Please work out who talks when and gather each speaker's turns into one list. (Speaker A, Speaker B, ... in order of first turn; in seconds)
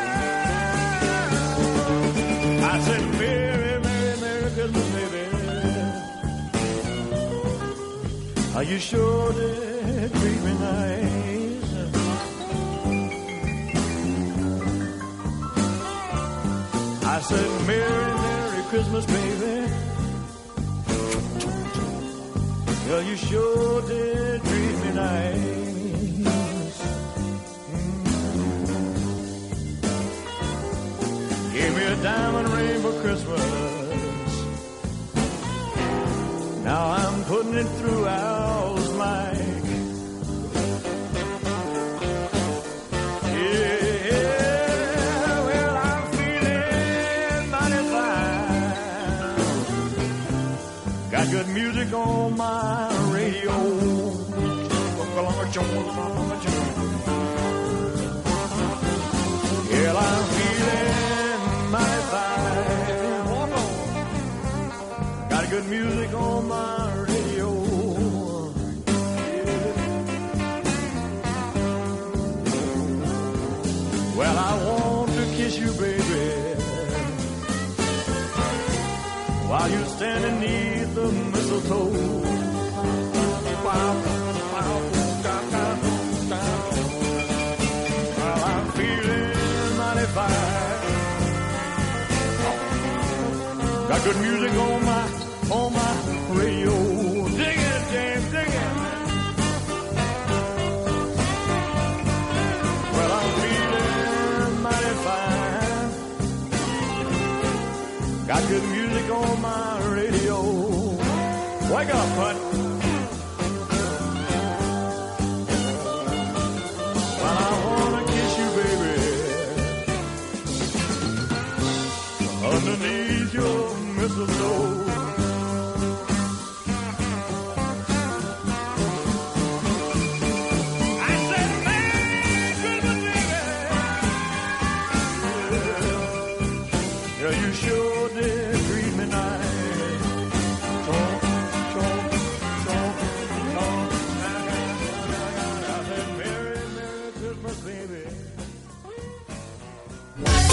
Speaker A: 2.6-6.1, 8.5-12.0, 17.0-19.8, 22.8-26.9, 27.6-28.6, 31.4-34.5, 36.5-39.8, 43.2-49.7, 51.0-57.0, 59.6-64.0, 65.2-68.7, 69.2-69.8, 74.1-77.2, 79.4-82.5, 83.5-87.0, 88.1-91.0, 93.8-99.1, 102.8-106.0, 108.2-112.6, 117.1-119.9, 122.2-125.1, 131.0-134.1, 135.2-136.2, 137.1-140.1, 140.8-148.5